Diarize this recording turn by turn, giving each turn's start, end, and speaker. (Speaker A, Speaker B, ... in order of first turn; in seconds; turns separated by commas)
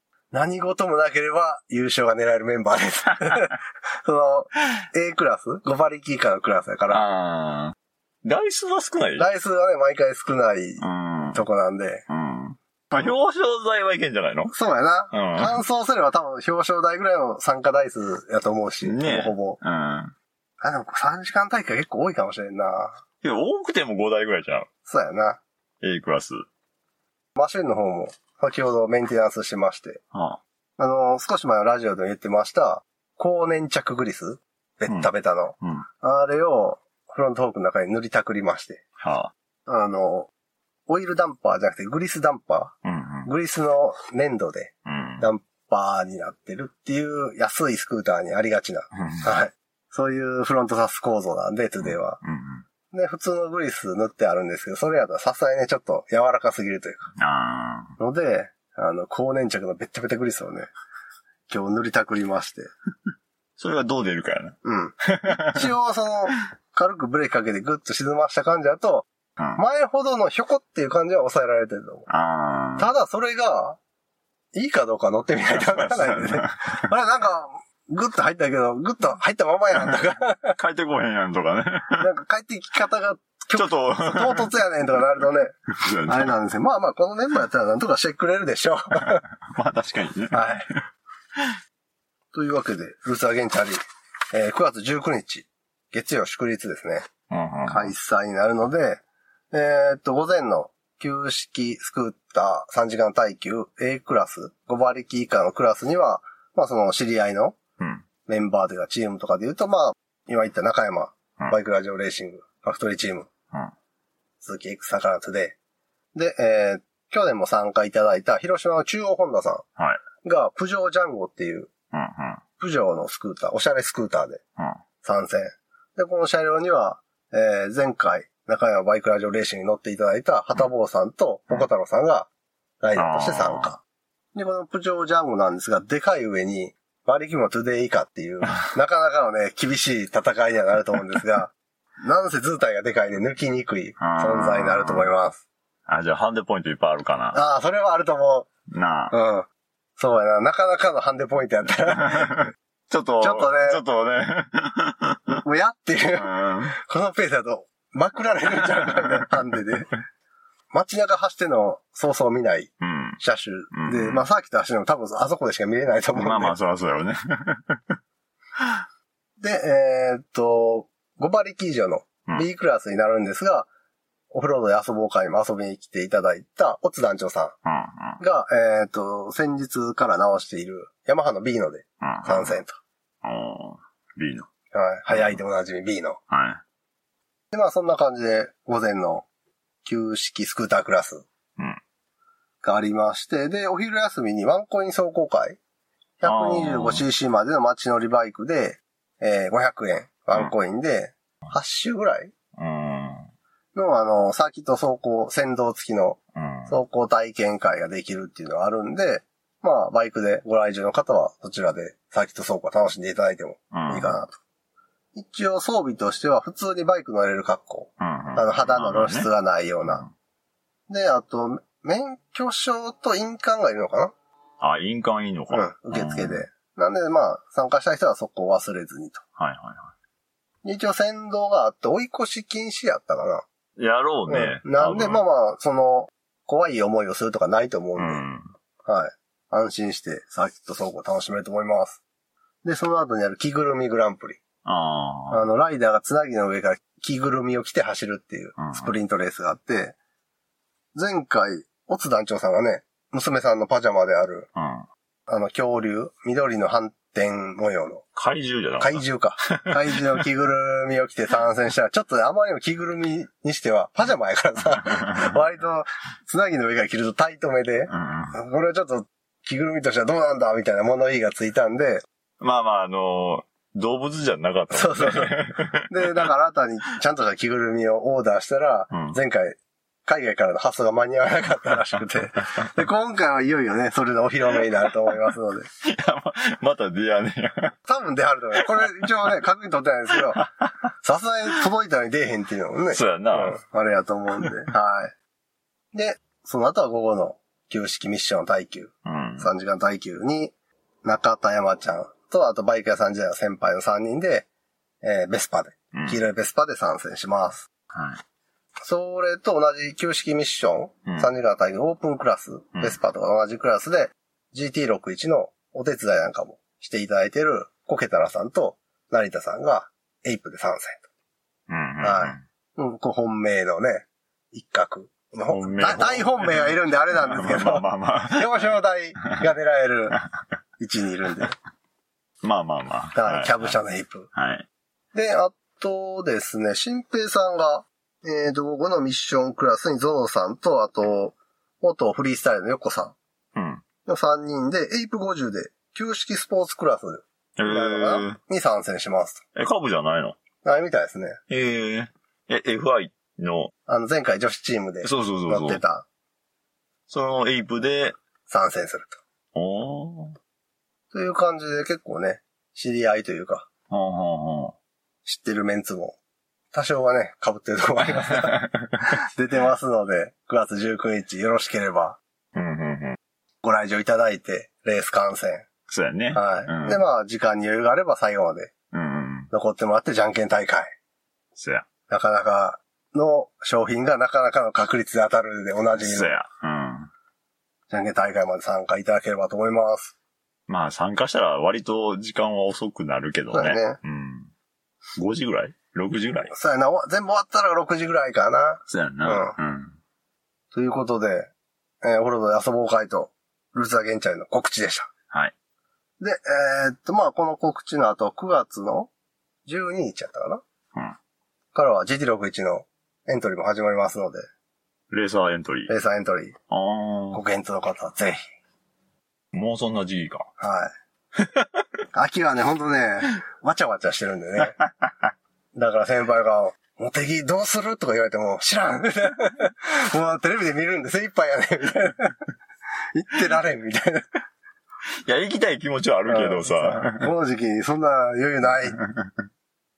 Speaker A: 0.3-7.0, Speaker B: 6.9-9.3, Speaker A: 9.2-12.1, Speaker B: 10.8-11.4, Speaker B: 12.1-14.5, Speaker A: 14.5-19.6, Speaker B: 15.1-15.6, Speaker B: 18.8-20.1, Speaker A: 20.6-23.0, Speaker B: 23.2-24.7, Speaker A: 24.9-25.4, Speaker B: 25.8-26.5, Speaker A: 27.4-30.0, Speaker B: 30.1-30.4, Speaker A: 30.8-38.8, Speaker B: 39.0-39.3, Speaker A: 39.7-40.3, Speaker A: 40.9-52.2, Speaker B: 42.8-43.3, Speaker B: 44.9-45.3, Speaker B: 49.0-49.3, Speaker B: 51.8-52.7, Speaker A: 52.9-57.1, Speaker B: 57.2-58.0, Speaker A: 58.0-60.7, Speaker A: 61.5-62.7, Speaker B: 63.6-65.7, Speaker A: 64.6-72.1, Speaker B: 72.1-72.9, Speaker A: 72.8-73.8, Speaker A: 74.5-80.6, Speaker B: 75.5-76.9, Speaker B: 80.6-82.1, Speaker A: 82.0-89.2, Speaker B: 83.5-84.5, Speaker B: 85.7-86.3, Speaker B: 89.0-90.6, Speaker A: 90.3-90.7, Speaker A: 92.3-93.8, Speaker A: 94.3-97.1, Speaker B: 97.3-97.9, Speaker A: 97.7-107.6, Speaker B: 107.8-108.0, Speaker A: 108.3-113.3, Speaker A: 114.4-115.6, Speaker A: 116.1-119.7, Speaker A: 120.2-121.7, Speaker B: 121.9-122.4, Speaker A: 122.6-124.4, Speaker A: 125.0-132.3, Speaker A: 132.8-133.8, Speaker B: 133.0-133.8, Speaker A: 134.3-145.4, Speaker B: 144.0-145.1, Speaker B: 145.9-147.4, Speaker A: 147.3-148.5, Speaker B: 148.7-149.1, Speaker A: 149.1-152.5, Speaker B: 151.9-155.4, Speaker A: 153.2-153.8, Speaker A: 155.4-159.9, Speaker B: 156.2-156.8, Speaker B: 158.6-159.6, Speaker A: 160.7-166.6, Speaker B: 162.8-163.2, Speaker B: 163.7-164.2, Speaker B: 166.2-168.0, Speaker A: 169.4-173.7, Speaker A: 174.3-177.6, Speaker B: 177.6-178.2, Speaker A: 178.2-182.8, Speaker B: 182.0-182.6, Speaker B: 183.2-184.5, Speaker A: 184.7-186.2, Speaker B: 185.1-185.4, Speaker B: 186.3-186.6, Speaker A: 187.5-189.3, Speaker A: 189.8-191.3, Speaker A: 192.6-195.6, Speaker A: 196.2-202.3, Speaker B: 196.2-197.0, Speaker B: 202.6-203.3, Speaker A: 203.8-214.4, Speaker B: 206.3-206.7, Speaker B: 213.7-214.2, Speaker A: 215.1-220.0, Speaker B: 218.0-219.3, Speaker A: 220.9-224.1, Speaker B: 224.6-226.4, Speaker A: 225.5-229.2, Speaker B: 229.4-229.9, Speaker A: 230.6-233.4, Speaker B: 233.8-235.2, Speaker A: 234.3-238.2, Speaker B: 238.0-238.5, Speaker A: 238.9-242.0, Speaker A: 242.6-244.4, Speaker B: 244.7-245.4, Speaker A: 245.3-250.0, Speaker B: 248.6-248.9, Speaker A: 250.9-254.5, Speaker B: 254.6-254.9, Speaker A: 255.3-258.0, Speaker B: 258.1-260.2, Speaker A: 258.8-272.0, Speaker B: 264.9-265.2, Speaker B: 267.9-268.4, Speaker B: 272.4-276.2, Speaker A: 274.7-285.7, Speaker B: 278.9-279.2, Speaker B: 285.8-287.8, Speaker A: 287.9-290.5, Speaker B: 288.6-289.1, Speaker B: 290.3-290.7, Speaker A: 291.0-295.1, Speaker B: 292.9-293.6, Speaker A: 295.9-304.5, Speaker B: 299.1-299.5, Speaker A: 305.0-307.7, Speaker B: 305.9-306.2, Speaker B: 307.9-308.2, Speaker A: 308.9-321.1, Speaker B: 321.7-322.4, Speaker A: 322.0-330.2, Speaker B: 325.5-328.7, Speaker A: 330.8-331.6, Speaker B: 332.4-333.8, Speaker A: 333.1-334.3, Speaker B: 334.3-334.7, Speaker A: 335.1-343.2, Speaker B: 343.6-343.8, Speaker A: 344.1-349.4, Speaker B: 347.6-348.4, Speaker B: 349.6-350.4, Speaker A: 350.6-351.4, Speaker B: 351.5-353.7, Speaker A: 353.9-356.1, Speaker B: 355.0-355.8, Speaker B: 357.1-358.2, Speaker A: 358.5-359.2, Speaker B: 359.6-360.4, Speaker A: 361.1-363.7, Speaker B: 363.9-364.8, Speaker A: 365.2-366.2, Speaker A: 366.7-372.2, Speaker B: 368.3-368.9, Speaker B: 372.5-373.2, Speaker A: 373.6-375.7, Speaker B: 375.9-377.0, Speaker A: 376.3-378.7, Speaker B: 378.9-379.5, Speaker A: 379.5-380.9, Speaker B: 381.6-381.9, Speaker A: 382.1-386.4, Speaker B: 386.0-387.1, Speaker A: 387.9-390.1, Speaker B: 390.7-394.5, Speaker A: 393.5-394.0, Speaker B: 395.2-396.5, Speaker A: 396.5-399.6, Speaker B: 398.9-400.0, Speaker A: 400.7-401.5, Speaker A: 402.0-405.1, Speaker A: 406.2-409.1, Speaker A: 409.7-410.6, Speaker A: 411.7-414.5, Speaker B: 415.1-415.9, Speaker A: 415.9-416.6, Speaker B: 416.7-417.4, Speaker A: 417.3-418.4, Speaker B: 419.5-420.5, Speaker A: 420.6-420.9, Speaker B: 421.4-421.8, Speaker A: 422.1-424.8, Speaker B: 424.8-425.3, Speaker A: 425.7-432.4, Speaker A: 433.1-434.2, Speaker B: 435.2-437.3, Speaker A: 436.3-439.0, Speaker B: 439.0-439.4